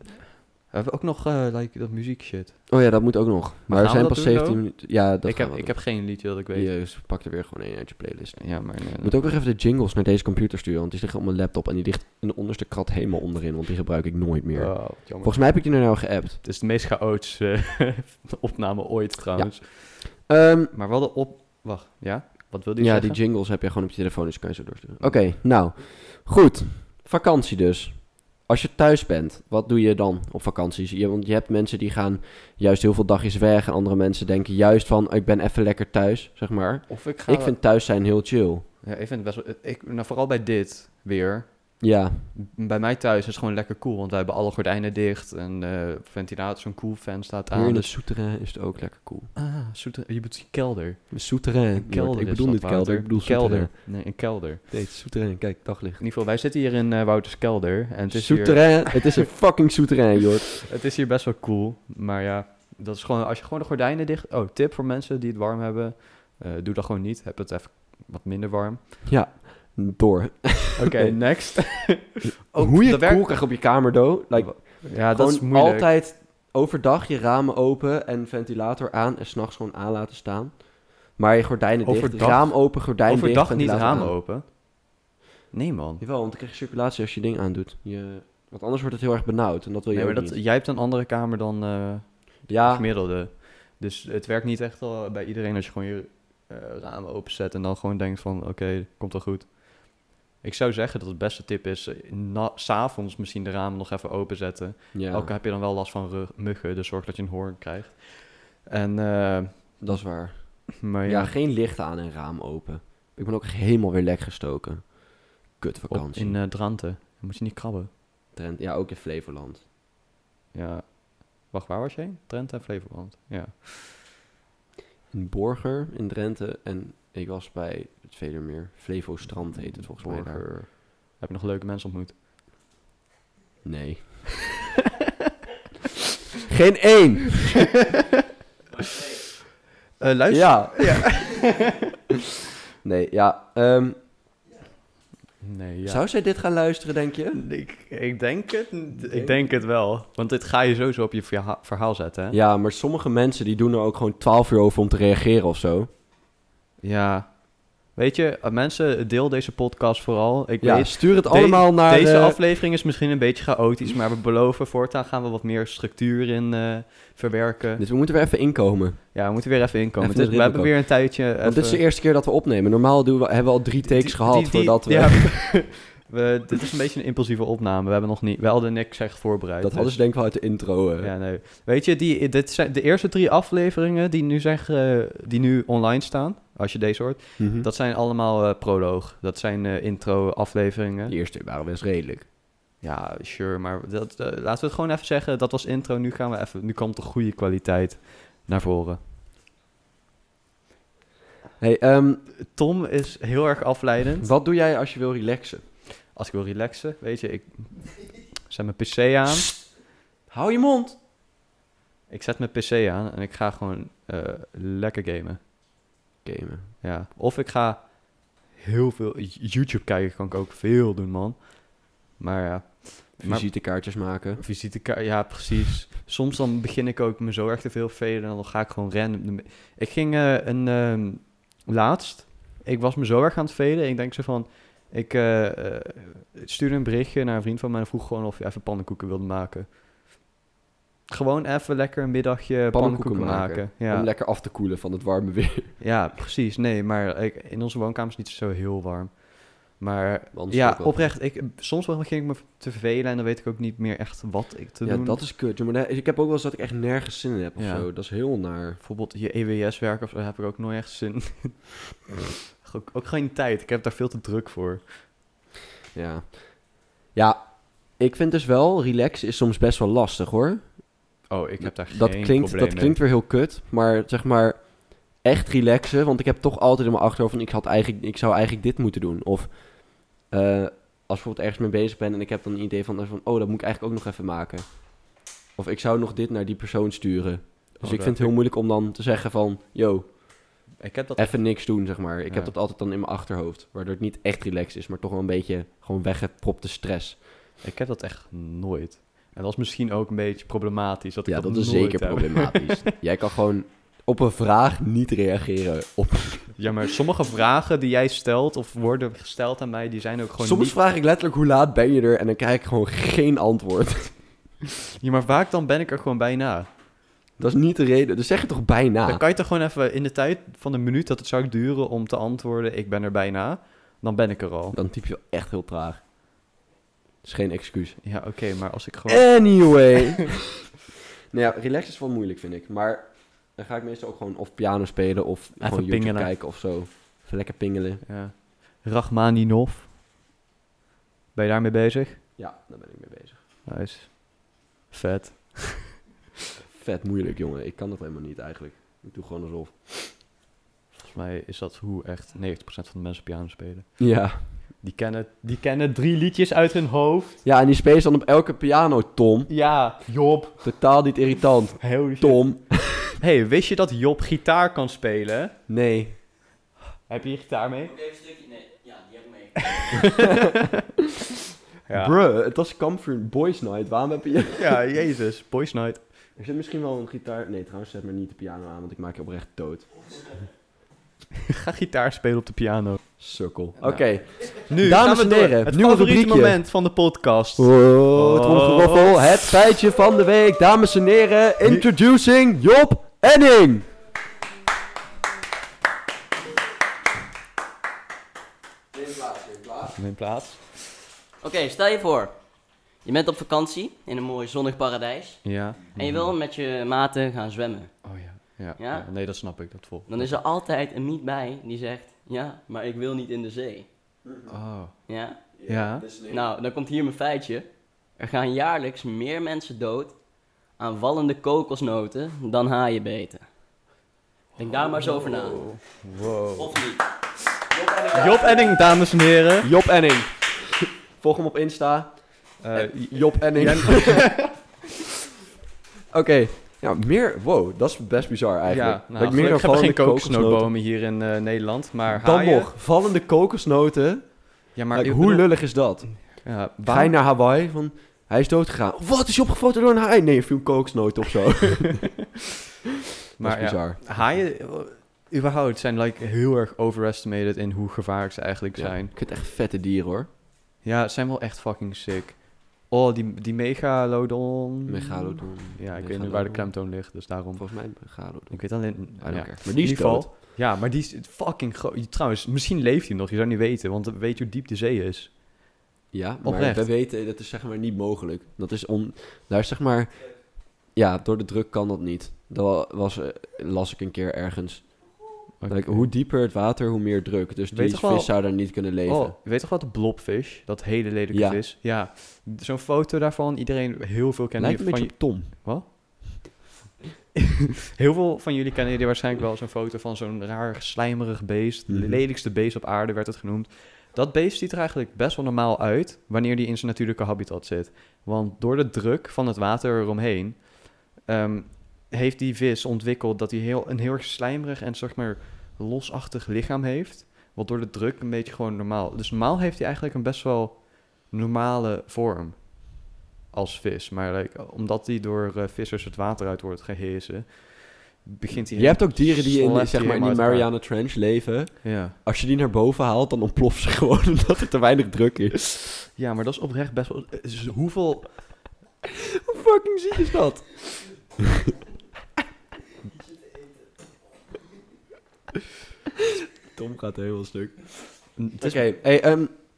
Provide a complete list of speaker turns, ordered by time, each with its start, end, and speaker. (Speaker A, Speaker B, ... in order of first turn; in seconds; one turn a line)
Speaker A: 0.7-2.7
Speaker B: 2.7-16.4
Speaker A: 3.7-6.7
Speaker A: 8.4-9.2
Speaker A: 14.6-15.8
Speaker A: 16.4-23.2
Speaker B: 19.4-20.7
Speaker B: 22.8-38.6
Speaker A: 36.9-37.6
Speaker A: 38.8-48.0
Speaker B: 41.8-42.3
Speaker B: 47.5-49.3
Speaker A: 49.4-54.6
Speaker B: 51.1-54.1
Speaker B: 54.7-56.0
Speaker A: 56.0-59.2
Speaker B: 58.1-60.5
Speaker A: 60.7-69.0
Speaker B: 69.1-71.2
Speaker A: 70.8-73.7
Speaker B: 72.5-84.2
Speaker A: 74.3-75.9
Speaker A: 81.8-84.6
Speaker A: 85.5-86.0
Speaker B: 86.0-90.4
Speaker A: 89.9-111.3
Speaker B: 92.5-92.9
Speaker B: 104.9-105.3
Speaker B: 109.8-116.4
Speaker A: 115.9-117.9
Speaker B: 118.3-119.7
Speaker A: 120.5-124.0
Speaker B: 125.1-130.5
Speaker A: 129.7-132.2
Speaker B: 133.6-134.5
Speaker B: 136.5-137.7
Speaker A: 140.0-141.8
Speaker B: 140.3-141.4
Speaker B: 142.8-144.0
Speaker A: 145.4-146.0
Speaker B: 145.8-147.4
Speaker A: 147.3-152.4
Speaker B: 148.9-149.5
Speaker B: 152.3-155.9
Speaker A: 156.8-167.8
Speaker B: 160.6-162.4
Speaker B: 167.8-169.3
Speaker A: 169.1-171.8
Speaker B: 170.0-175.6
Speaker A: 173.8-180.1
Speaker B: 179.6-181.1
Speaker A: 181.0-191.2
Speaker B: 187.4-187.7
Speaker B: 191.1-192.3
Speaker A: 192.8-199.0
Speaker B: 201.6-202.3
Speaker A: 202.4-204.3
Speaker B: 204.2-205.7
Speaker A: 206.1-209.6
Speaker B: 210.3-211.0
Speaker A: 212.1-215.4
Speaker B: 216.2-216.7
Speaker A: 216.8-239.8
Speaker B: 223.2-224.4
Speaker A: 241.1-244.1
Speaker B: 242.7-245.8
Speaker A: 245.8-255.2
Speaker B: 250.3-251.1
Speaker B: 254.8-258.8
Speaker A: 257.6-257.9
Speaker A: 258.8-262.1
Speaker A: 262.6-265.1
Speaker B: 265.9-271.0
Speaker A: 271.3-273.0
Speaker B: 271.6-290.6
Speaker A: 287.8-288.4
Speaker A: 290.8-292.5
Speaker B: 291.2-297.2
Speaker A: 297.6-302.9
Speaker B: 301.3-306.6
Speaker A: 306.6-310.8
Speaker B: 310.4-314.2
Speaker A: 315.0-316.7
Speaker B: 317.4-319.2
Speaker A: 319.1-324.8
Speaker B: 324.7-326.0
Speaker B: 327.2-328.0
Speaker A: 328.0-329.8
Speaker B: 329.1-330.7
Speaker B: 331.3-338.1
Speaker A: 335.6-336.3
Speaker A: 338.1-339.9
Speaker A: 341.3-342.2
Speaker B: 342.4-343.4
Speaker A: 343.7-345.9
Speaker B: 346.7-350.2
Speaker A: 351.0-357.4
Speaker B: 354.0-354.4
Speaker B: 357.4-359.6
Speaker A: 359.5-360.7
Speaker B: 360.6-363.0
Speaker A: 361.8-365.5
Speaker B: 365.7-366.2
Speaker A: 367.1-367.9
Speaker C: 367.8-370.2
Speaker A: 369.7-370.4
Speaker A: 371.9-372.1
Speaker B: 371.9-374.8
Speaker A: 374.6-376.0
Speaker B: 376.4-380.1
Speaker A: 381.5-383.2
Speaker B: 383.2-386.6
Speaker A: 383.8-389.4
Speaker B: 387.6-393.9
Speaker B: 398.9-399.9
Speaker A: 399.9-400.7
Speaker C: 401.4-408.1
Speaker A: 405.4-406.3
Speaker A: 408.0-410.3
Speaker C: 408.8-409.1
Speaker C: 410.1-413.9
Speaker B: 414.2-414.5
Speaker A: 414.5-415.1
Speaker C: 415.1-415.6
Speaker B: 415.6-416.5
Speaker A: 415.7-416.1
Speaker C: 416.2-423.5
Speaker C: 424.6-425.8
Speaker A: 424.6-426.8
Speaker C: 426.6-427.0
Speaker C: 427.7-428.8
Speaker A: 428.1-429.7
Speaker B: 429.6-434.4
Speaker A: 432.6-434.6
Speaker B: 436.1-440.7
Speaker A: 438.7-442.7
Speaker B: 442.1-452.2
Speaker A: 444.8-447.2
Speaker A: 453.4-459.1
Speaker B: 453.4-454.4
Speaker B: 458.8-460.3
Speaker A: 460.8-475.4
Speaker B: 464.9-466.8
Speaker B: 467.5-470.3
Speaker B: 476.1-485.2
Speaker A: 476.4-476.9
Speaker A: 485.6-486.1
Speaker B: 485.7-489.4
Speaker A: 487.7-496.5
Speaker B: 491.3-491.6
Speaker B: 494.6-495.5
Speaker A: 498.0-530.7
Speaker B: 501.9-502.2
Speaker B: 528.7-535.7
Speaker A: 531.8-532.2
Speaker A: 536.1-538.6
Speaker B: 539.4-541.3
Speaker B: 546.7-549.5
Speaker A: 548.4-548.9